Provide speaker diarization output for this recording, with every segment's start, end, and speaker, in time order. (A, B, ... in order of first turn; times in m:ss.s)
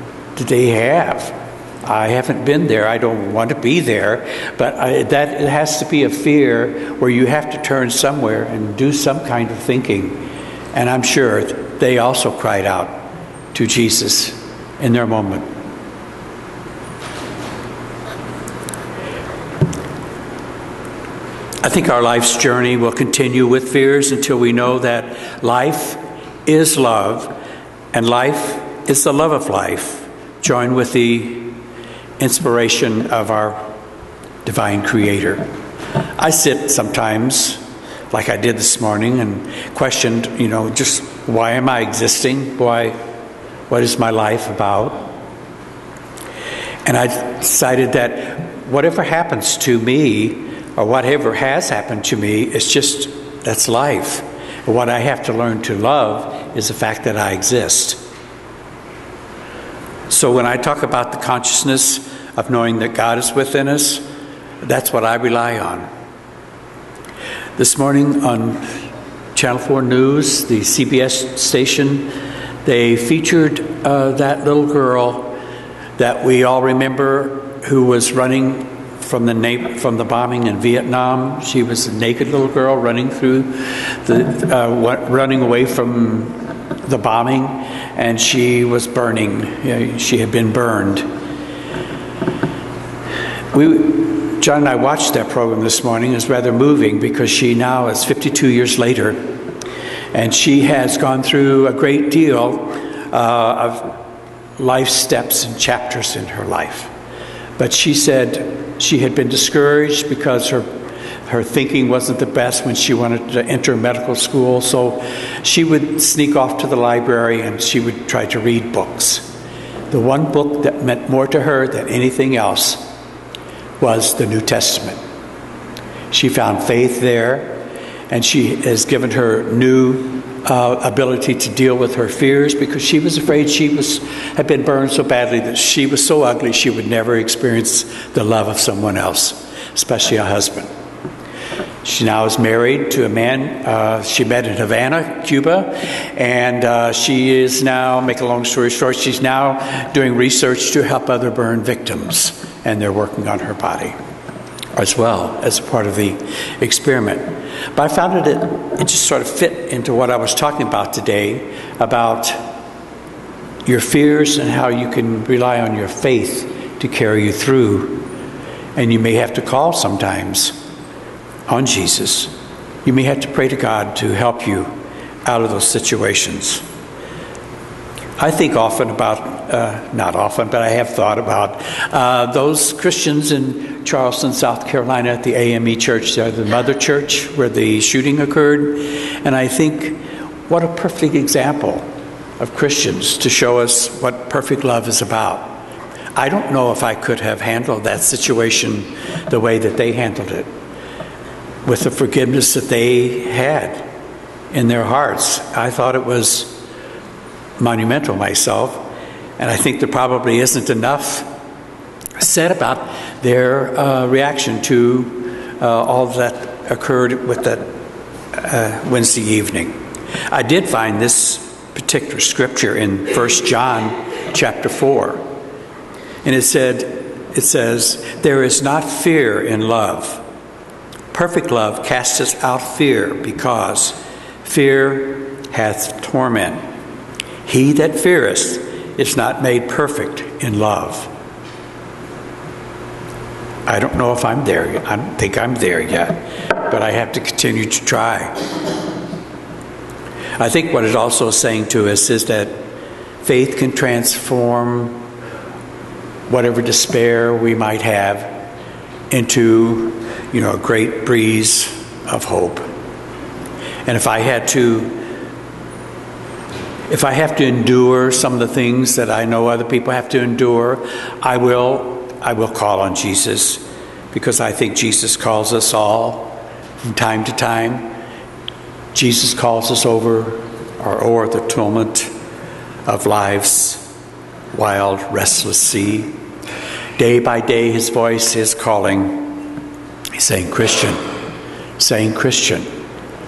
0:00.4-0:15.5 A
0:21.6-0:27.3 A
0:27.9-0:31.6 A
0:32.2-0:33.6 A
0:34.4-0:35.4 A
0:36.2-0:43.0 A
0:43.7-0:45.1 A
0:46.8-0:58.0 A
1:00.1-1:04.0 A
1:04.6-1:05.9 A
1:07.6-1:08.6 A
1:09.3-1:12.1 A
1:12.6-1:15.4 A
1:16.0-1:31.1 A
1:33.5-1:39.2 A
1:40.1-1:43.9 A
1:44.6-1:46.9 A
1:47.6-1:50.7 A
1:51.2-1:59.3 A
1:59.9-2:02.8 A
2:03.8-2:05.0 A
2:06.1-2:20.7 A
2:21.8-2:34.0 A
2:34.8-2:42.4 A
2:43.6-2:48.1 A
2:48.8-2:50.6 A
2:51.5-2:52.3 A
2:52.8-2:54.7 A
2:55.2-2:56.6 A
2:58.2-3:11.9 A
3:12.4-3:15.6 A
3:16.1-3:20.5 A
3:21.6-3:23.8 A
3:24.5-3:26.6 A
3:27.6-3:31.3 A
3:32.2-3:37.7 A
3:38.3-3:39.8 A
3:40.3-3:45.2 A
3:46.2-3:50.2 A
3:51.1-3:56.6 A
3:57.4-4:01.1 A
4:03.7-4:08.4 A
4:10.4-4:12.6 A
4:13.2-4:15.0 A
4:16.3-4:18.4 A
4:19.1-4:22.7 A
4:23.9-4:25.0 A
4:26.9-4:37.9 A
4:38.9-4:42.1 A
4:42.9-4:43.8 A
4:44.5-4:46.1 A
4:47.0-4:49.4 A
4:50.2-4:51.0 A
4:51.8-4:52.7 A